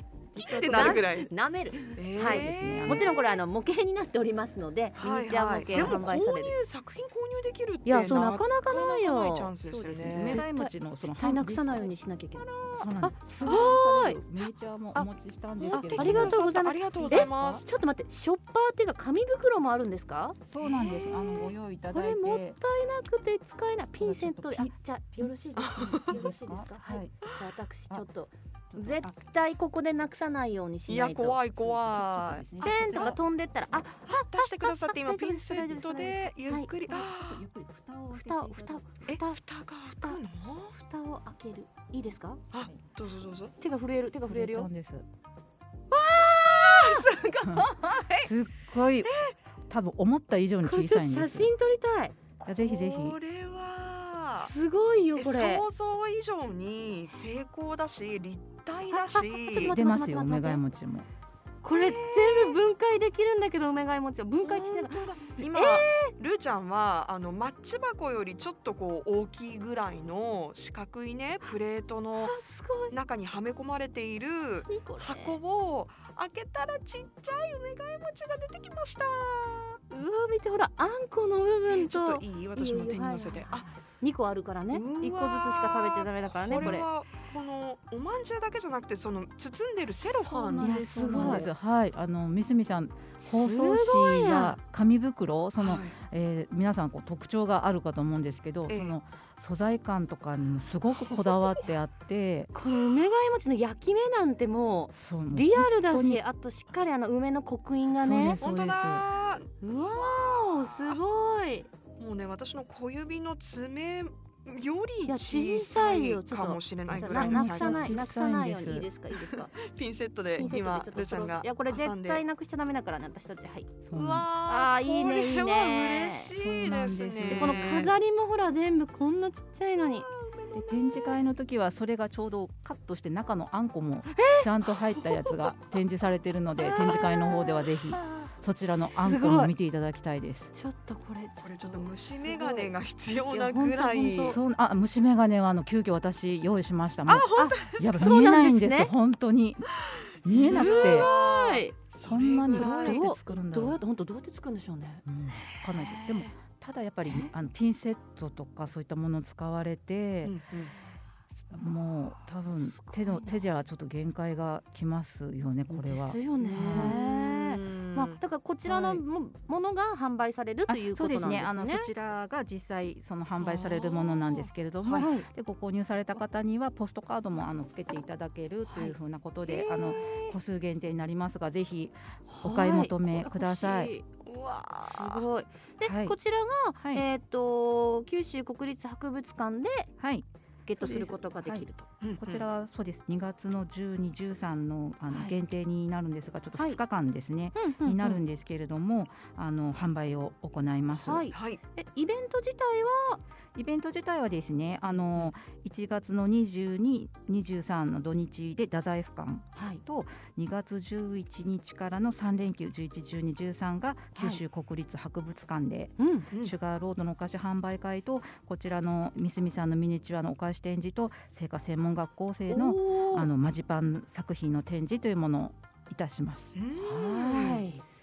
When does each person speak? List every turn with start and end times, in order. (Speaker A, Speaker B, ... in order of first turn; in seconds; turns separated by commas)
Speaker A: 0.3-6.5, Speaker B: 0.4-1.0, Speaker C: 0.4-1.3, Speaker C: 1.9-3.3, Speaker B: 2.2-3.1, Speaker C: 5.0-10.4, Speaker A: 7.8-9.5, Speaker B: 9.7-11.9, Speaker A: 10.1-14.2, Speaker C: 12.4-12.9, Speaker B: 12.8-16.4, Speaker C: 13.4-13.7, Speaker A: 15.6-20.4, Speaker C: 15.7-17.6, Speaker B: 16.9-17.6, Speaker B: 20.4-22.6, Speaker C: 20.6-21.5, Speaker A: 21.8-31.4, Speaker B: 24.0-27.1, Speaker C: 25.6-26.2, Speaker B: 28.7-29.1, Speaker C: 30.9-33.2, Speaker B: 31.6-33.2, Speaker A: 32.6-36.7, Speaker C: 34.1-37.4, Speaker B: 36.9-39.1, Speaker A: 38.1-40.2, Speaker C: 39.1-40.8, Speaker A: 40.7-42.4, Speaker C: 42.5-43.5, Speaker A: 43.6-44.7, Speaker B: 44.3-45.0, Speaker A: 45.9-47.1, Speaker C: 46.1-48.3, Speaker B: 47.5-49.1, Speaker C: 49.0-49.3, Speaker B: 49.7-51.5, Speaker A: 50.6-52.1, Speaker C: 52.4-54.5, Speaker B: 52.5-53.2, Speaker A: 54.4-55.6, Speaker C: 55.1-59.8, Speaker A: 58.9-60.6, Speaker B: 59.6-61.1, Speaker A: 61.6-66.1, Speaker C: 61.7-62.6, Speaker C: 64.4-72.4, Speaker A: 72.2-72.9, Speaker C: 72.9-79.8, Speaker A: 74.7-75.4, Speaker A: 79.9-86.8, Speaker C: 81.7-83.7, Speaker C: 84.7-91.5, Speaker B: 86.5-86.8, Speaker B: 90.0-102.5, Speaker A: 90.5-91.5, Speaker A: 93.2-94.6, Speaker C: 95.6-96.0, Speaker C: 98.7-99.0, Speaker C: 101.1-101.5, Speaker A: 102.5-108.4, Speaker B: 104.9-106.2, Speaker B: 108.0-109.0, Speaker C: 108.4-111.0, Speaker A: 109.6-111.7, Speaker C: 112.0-118.0, Speaker A: 115.0-119.5, Speaker B: 116.9-118.9, Speaker C: 119.1-122.2, Speaker A: 120.3-123.7, Speaker B: 123.8-124.3, Speaker C: 123.9-128.0, Speaker A: 124.4-126.3, Speaker B: 126.3-127.9, Speaker A: 127.3-130.1, Speaker C: 129.8-131.2, Speaker B: 130.5-140.5, Speaker A: 134.1-134.5, Speaker A: 136.6-138.2, Speaker A: 139.0-139.5, Speaker A: 140.5-142.7, Speaker C: 141.4-144.4, Speaker A: 143.3-144.4, Speaker B: 144.2-149.7, Speaker C: 147.1-148.1, Speaker A: 147.4-148.9, Speaker B: 150.2-151.1, Speaker C: 150.3-153.0, Speaker A: 150.4-151.7, Speaker B: 152.0-153.8, Speaker A: 152.5-155.0, Speaker B: 155.1-160.3, Speaker C: 155.5-156.3, Speaker A: 157.0-157.3, Speaker C: 160.2-160.7, Speaker B: 161.5-167.0, Speaker A: 162.6-163.3, Speaker A: 165.7-171.9, Speaker C: 166.4-168.2, Speaker B: 168.7-169.0, Speaker B: 170.7-183.9, Speaker C: 173.4-175.1, Speaker A: 174.9-175.3, Speaker A: 178.7-178.9, Speaker C: 179.5-179.9, Speaker A: 179.6-180.3, Speaker A: 182.3-184.1, Speaker C: 184.2-185.2, Speaker A: 184.8-189.9, Speaker B: 185.8-186.2, Speaker B: 186.8-187.0, Speaker B: 190.0-191.7, Speaker A: 190.7-191.9, Speaker C: 192.0-192.5, Speaker B: 192.2-201.3, Speaker A: 195.1-195.4, Speaker A: 197.5-198.2, Speaker A: 200.9-203.2, Speaker C: 201.3-201.6, Speaker B: 203.5-226.5, Speaker A: 209.6-209.8, Speaker A: 214.2-214.4, Speaker A: 216.0-216.3, Speaker A: 222.5-223.3, Speaker C: 226.5-227.7, Speaker A: 226.8-227.8